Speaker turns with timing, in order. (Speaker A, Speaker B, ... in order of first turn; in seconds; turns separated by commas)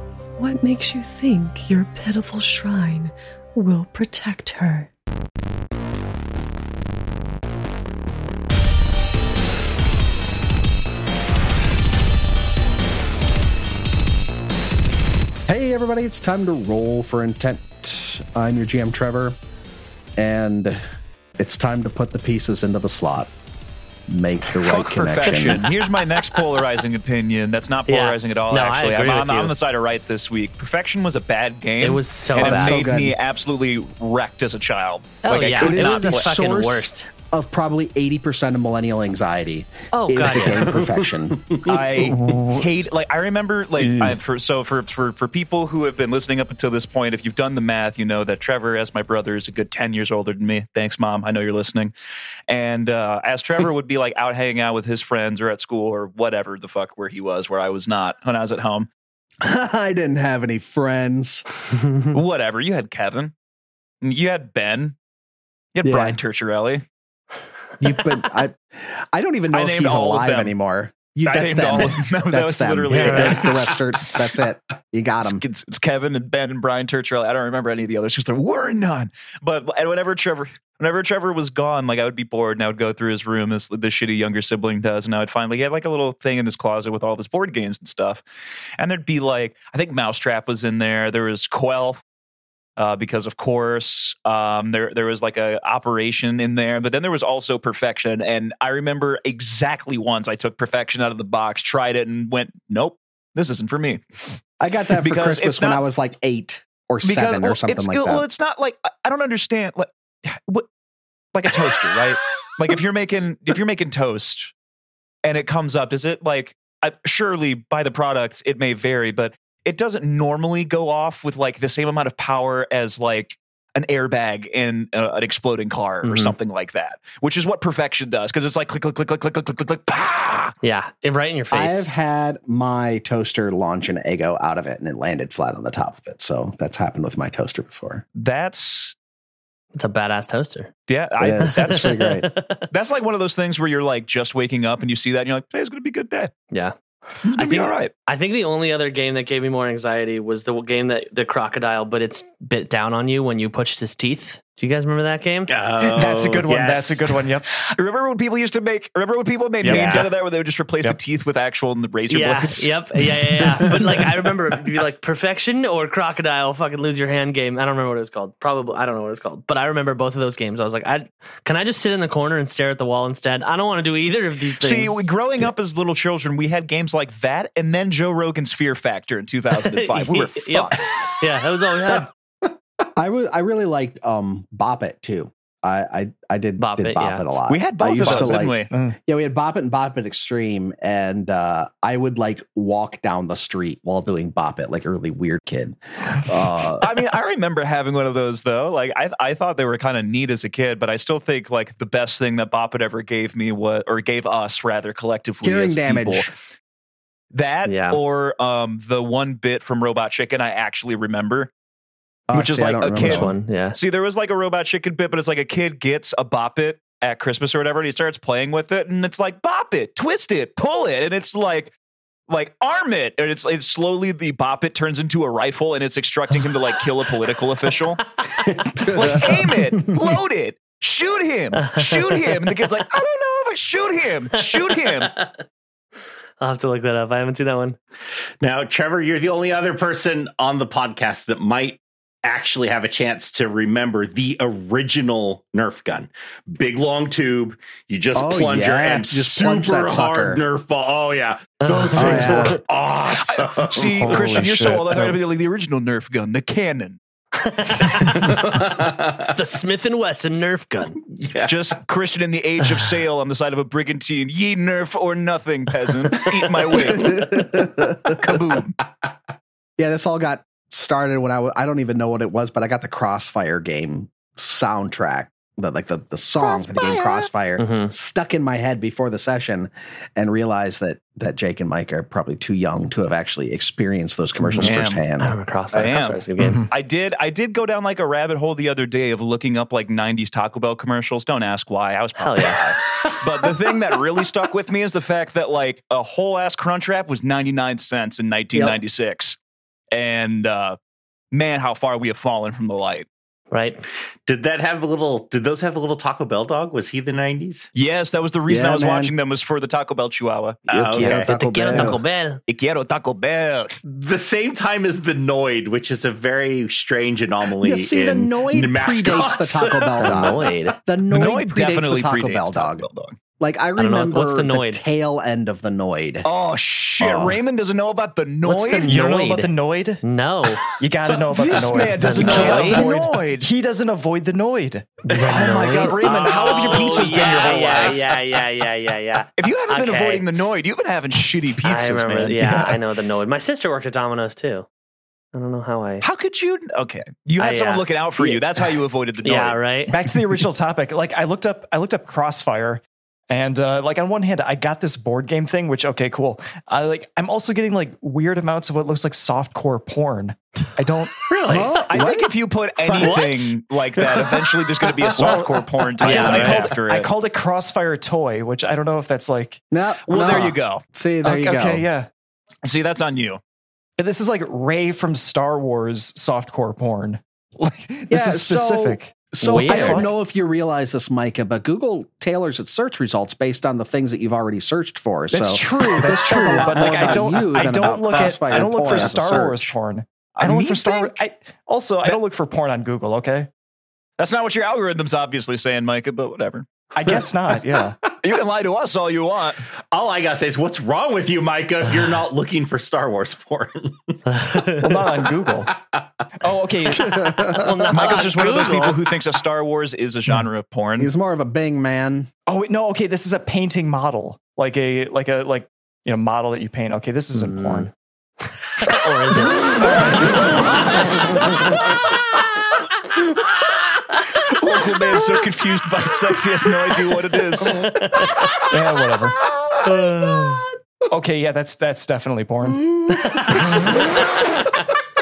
Speaker A: 0.4-4.9, Speaker B: 15.5-19.4, Speaker B: 20.2-20.8, Speaker B: 21.4-23.3, Speaker B: 24.1-25.7, Speaker C: 24.5-36.3, Speaker D: 25.3-26.1, Speaker D: 27.9-29.5, Speaker D: 31.8-32.8, Speaker B: 32.4-33.2, Speaker D: 35.2-37.1, Speaker B: 35.6-42.5, Speaker A: 40.0-40.4, Speaker D: 40.0-40.7, Speaker E: 41.5-41.8, Speaker C: 41.6-51.9, Speaker C: 52.5-58.9, Speaker B: 59.4-61.4, Speaker C: 62.1-63.3, Speaker C: 64.0-65.0, Speaker C: 65.7-66.8, Speaker B: 65.8-66.2, Speaker B: 67.8-75.4, Speaker C: 69.5-70.5, Speaker C: 71.2-73.7, Speaker D: 72.9-73.5, Speaker C: 75.2-88.2, Speaker C: 88.8-92.0, Speaker C: 92.8-104.4, Speaker B: 104.6-108.2, Speaker C: 105.0-105.8, Speaker C: 107.0-110.7, Speaker C: 111.3-114.5, Speaker C: 115.2-130.5, Speaker D: 126.0-126.3, Speaker D: 130.6-131.9, Speaker B: 131.5-138.0, Speaker C: 138.2-138.9, Speaker D: 139.7-140.7, Speaker C: 140.9-142.0, Speaker B: 141.2-142.3, Speaker D: 141.5-142.7, Speaker C: 142.7-146.3, Speaker C: 147.3-147.9, Speaker D: 147.3-155.5, Speaker E: 155.5-157.3, Speaker F: 155.8-157.5, Speaker C: 157.6-163.4, Speaker F: 159.6-160.1, Speaker D: 159.7-160.1, Speaker D: 162.1-175.5, Speaker C: 174.6-180.9, Speaker D: 179.6-182.1, Speaker B: 183.0-197.0, Speaker D: 186.6-187.2, Speaker C: 187.5-188.7, Speaker F: 188.0-189.0, Speaker C: 196.8-206.3, Speaker B: 205.4-206.3, Speaker C: 207.3-211.5, Speaker D: 207.7-208.0, Speaker B: 212.3-213.3, Speaker C: 212.3-221.7, Speaker D: 212.9-213.8, Speaker C: 222.3-228.1, Speaker D: 228.2-228.9, Speaker C: 228.8-235.1, Speaker B: 228.8-229.9, Speaker D: 231.6-232.5, Speaker D: 234.4-235.3, Speaker D: 236.4-237.8, Speaker E: 238.4-254.4, Speaker B: 248.1-250.4, Speaker D: 251.6-252.4, Speaker B: 251.9-252.6, Speaker C: 252.1-252.4, Speaker C: 253.0-257.0, Speaker F: 254.0-255.1, Speaker D: 257.4-258.7, Speaker E: 258.0-259.3, Speaker D: 259.2-261.0, Speaker E: 261.1-261.5, Speaker C: 261.4-268.8, Speaker B: 266.9-268.2, Speaker B: 269.8-285.3, Speaker D: 277.6-277.9, Speaker C: 284.6-285.1, Speaker D: 285.2-286.6, Speaker C: 285.7-299.4, Speaker F: 286.4-286.7, Speaker D: 292.2-292.6, Speaker C: 299.9-300.8, Speaker C: 301.3-303.1, Speaker D: 303.5-303.8, Speaker E: 304.3-307.7, Speaker C: 307.7-311.1, Speaker B: 308.5-309.1, Speaker E: 310.7-311.9, Speaker B: 310.7-312.0, Speaker D: 311.0-312.4, Speaker C: 312.5-313.8, Speaker E: 313.8-320.5, Speaker B: 317.6-322.9, Speaker D: 320.0-320.8, Speaker C: 321.1-323.2, Speaker B: 323.4-326.3, Speaker D: 323.8-324.8, Speaker C: 326.2-329.0, Speaker B: 327.0-327.4, Speaker D: 328.4-330.6, Speaker F: 328.8-330.0, Speaker F: 330.8-336.1, Speaker C: 331.3-333.5, Speaker D: 332.2-332.9, Speaker D: 335.0-340.2, Speaker C: 335.2-338.1, Speaker E: 336.2-336.8, Speaker F: 336.8-338.0, Speaker C: 339.4-342.6, Speaker D: 341.6-344.7, Speaker F: 342.4-342.8, Speaker D: 345.3-346.1, Speaker C: 346.0-349.6, Speaker D: 347.4-348.7, Speaker D: 349.2-350.0, Speaker F: 349.9-361.3, Speaker D: 361.2-361.8, Speaker B: 361.5-362.3, Speaker C: 361.6-367.1, Speaker D: 362.9-366.6, Speaker F: 365.1-369.6, Speaker B: 369.7-371.9, Speaker C: 370.1-370.8, Speaker F: 371.2-372.1, Speaker C: 372.6-373.4, Speaker F: 374.0-380.1, Speaker B: 378.1-389.7, Speaker D: 379.4-380.1, Speaker F: 385.3-393.5, Speaker E: 388.1-389.1, Speaker C: 390.4-391.2, Speaker C: 394.2-396.7, Speaker F: 396.9-398.0, Speaker C: 398.1-399.6, Speaker E: 399.9-404.2, Speaker D: 404.3-404.9, Speaker F: 404.7-405.7, Speaker E: 405.7-406.1, Speaker F: 406.4-407.6, Speaker D: 407.2-409.1, Speaker C: 407.9-411.1, Speaker B: 411.0-412.3, Speaker F: 412.5-417.9, Speaker D: 417.3-417.9, Speaker D: 418.8-421.5, Speaker F: 419.3-420.4, Speaker C: 424.3-428.1, Speaker D: 427.6-428.6, Speaker F: 428.3-429.4, Speaker D: 429.8-430.7, Speaker F: 431.1-434.0, Speaker D: 433.1-434.9